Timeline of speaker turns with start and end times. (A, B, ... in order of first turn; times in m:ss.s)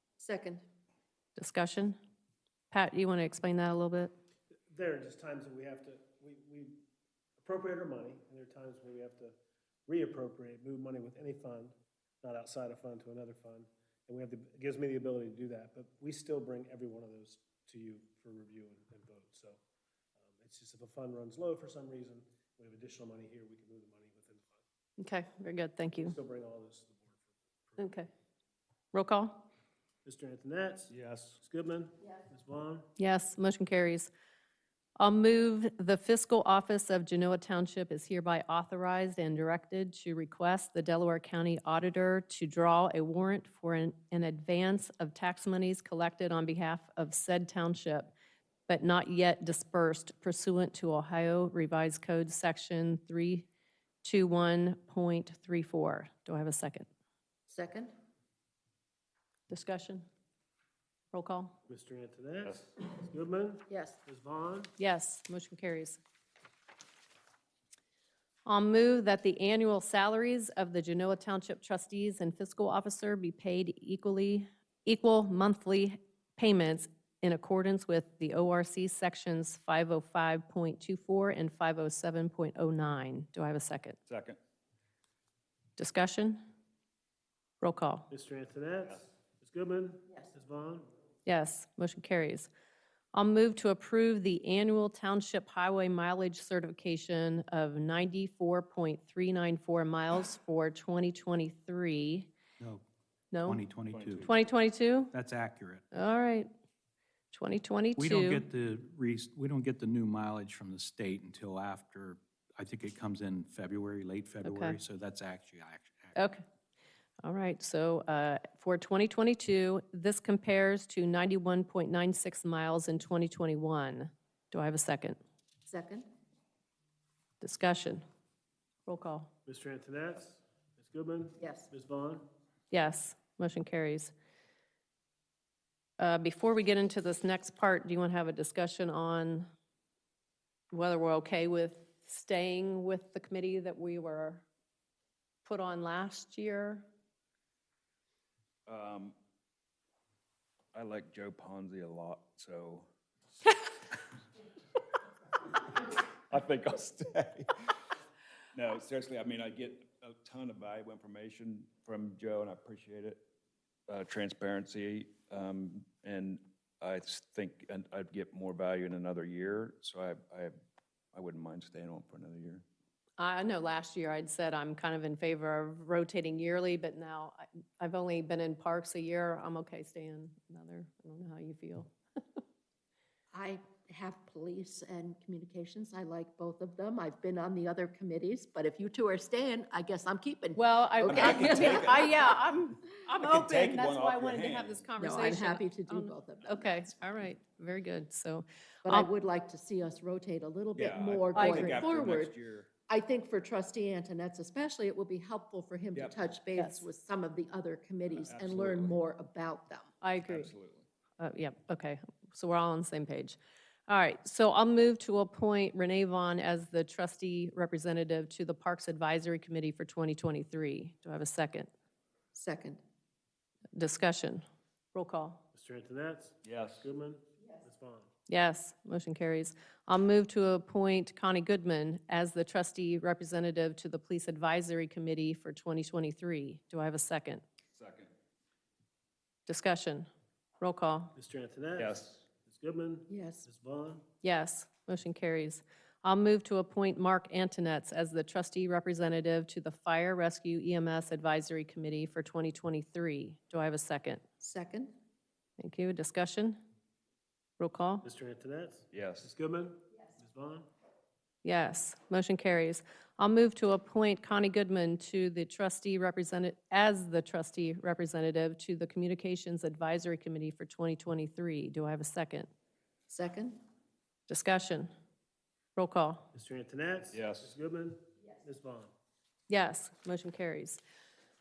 0:00.2-0:00.6 A
0:01.4-0:02.0 B
0:02.7-0:04.1 B
0:04.7-0:06.8 C
0:07.4-0:09.4 C
0:09.9-0:19.6 C
0:20.2-0:24.6 C
0:25.0-0:26.1 B
0:26.0-0:28.0 C
0:27.8-0:28.1 B
0:28.9-0:29.5 B
0:30.0-0:32.9 C
0:30.9-0:31.4 D
0:33.0-0:34.1 B
0:35.0-0:48.1 B
0:48.7-0:53.5 B
0:54.0-0:56.9 B
0:57.5-0:57.9 A
0:59.5-1:00.0 B
1:01.1-1:01.6 B
1:01.7-1:04.7 C
1:03.7-1:04.0 A
1:04.8-1:06.0 B
1:08.4-1:24.0 B
1:24.1-1:24.4 D
1:25.8-1:26.4 B
1:27.6-1:28.1 B
1:28.1-1:30.9 C
1:31.2-1:32.5 B
1:33.1-1:42.3 B
1:42.6-1:42.8 E
1:43.3-1:43.6 B
1:43.4-1:44.3 E
1:43.9-1:44.4 D
1:44.2-1:45.1 B
1:45.1-1:45.8 E
1:45.9-1:46.5 B
1:47.3-1:48.4 B
1:48.0-1:56.2 E
1:54.4-1:54.8 B
1:56.2-1:56.4 B
1:57.2-2:05.2 B
2:05.7-2:06.1 A
2:07.4-2:08.0 B
2:08.8-2:09.3 B
2:09.4-2:12.2 C
2:11.4-2:11.7 A
2:12.7-2:14.1 B
2:16.0-2:19.5 B
2:20.7-2:24.4 B
2:25.4-2:26.8 B
2:28.7-2:29.2 D
2:30.7-2:32.9 D
2:36.3-2:37.8 D
2:38.5-2:43.2 D
2:43.9-2:50.5 D
2:51.1-2:52.6 D
2:53.2-3:01.9 B
3:03.3-3:12.3 A
3:10.6-3:19.1 B
3:11.1-3:12.2 D
3:13.2-3:14.8 D
3:15.0-3:16.7 A
3:18.8-3:22.3 A
3:20.7-3:22.7 D
3:21.4-3:21.9 B
3:22.9-3:29.9 A
3:26.6-3:26.8 B
3:28.2-3:29.0 D
3:30.0-3:30.5 B
3:30.2-3:30.8 D
3:31.2-3:41.7 B
3:42.3-3:42.8 A
3:43.8-3:45.4 B
3:45.5-3:48.1 C
3:46.4-3:46.8 D
3:48.3-3:57.4 B
3:57.7-3:58.1 D
3:59.4-4:00.1 B
4:00.6-4:01.1 B
4:01.1-4:04.0 C
4:01.8-4:02.2 D
4:03.1-4:03.4 A
4:04.2-4:14.2 B
4:14.4-4:14.9 A
4:15.6-4:16.6 B
4:17.6-4:18.0 B
4:18.0-4:20.7 C
4:18.9-4:19.3 D
4:21.4-4:32.5 B
4:33.1-4:33.6 A
4:34.3-4:34.9 B
4:35.8-4:36.3 B
4:36.3-4:38.9 C
4:37.1-4:37.5 D
4:39.5-4:40.8 B